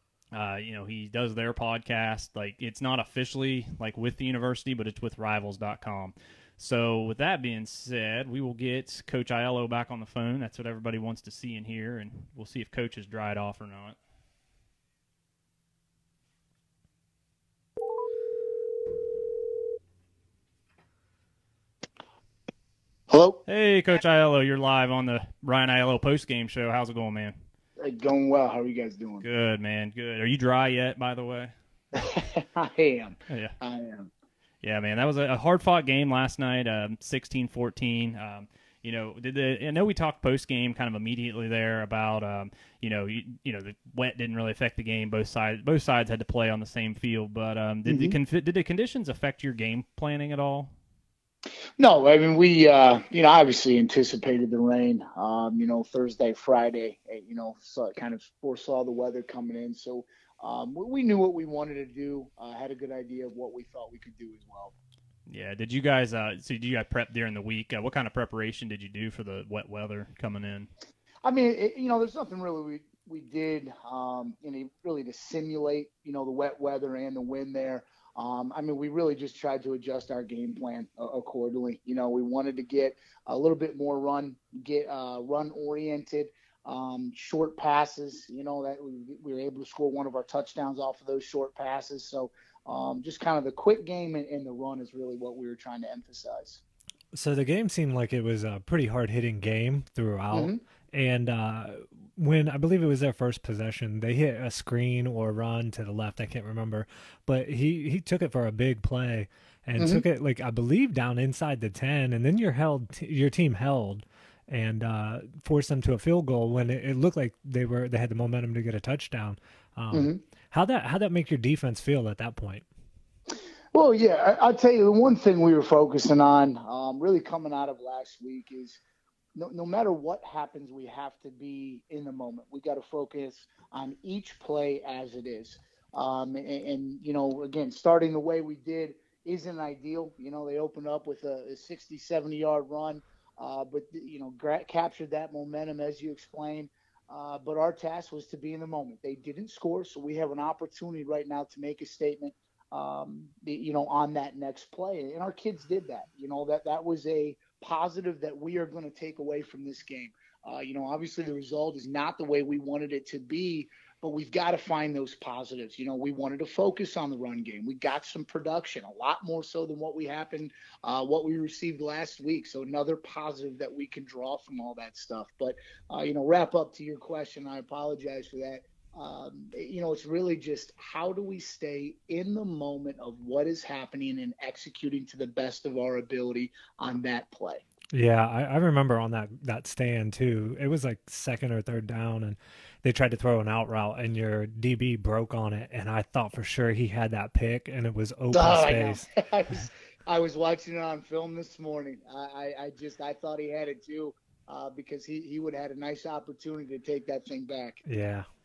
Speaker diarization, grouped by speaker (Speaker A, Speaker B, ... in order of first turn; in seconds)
Speaker A: 0.3-14.0, 23.5-27.4, 29.2-31.5, 33.3-33.5, 34.6-50.7, 65.3-70.7
Speaker B: 23.1-23.4, 27.8-29.2, 31.9-34.1, 47.9-48.2, 51.8-64.7, 71.2-96.6, 100.3-100.6, 109.8-110.0, 119.9-120.2, 123.7-128.8, 129.3-187.6, 198.3-207.8
Speaker C: 97.1-122.7, 187.9-199.1, 207.8-208.3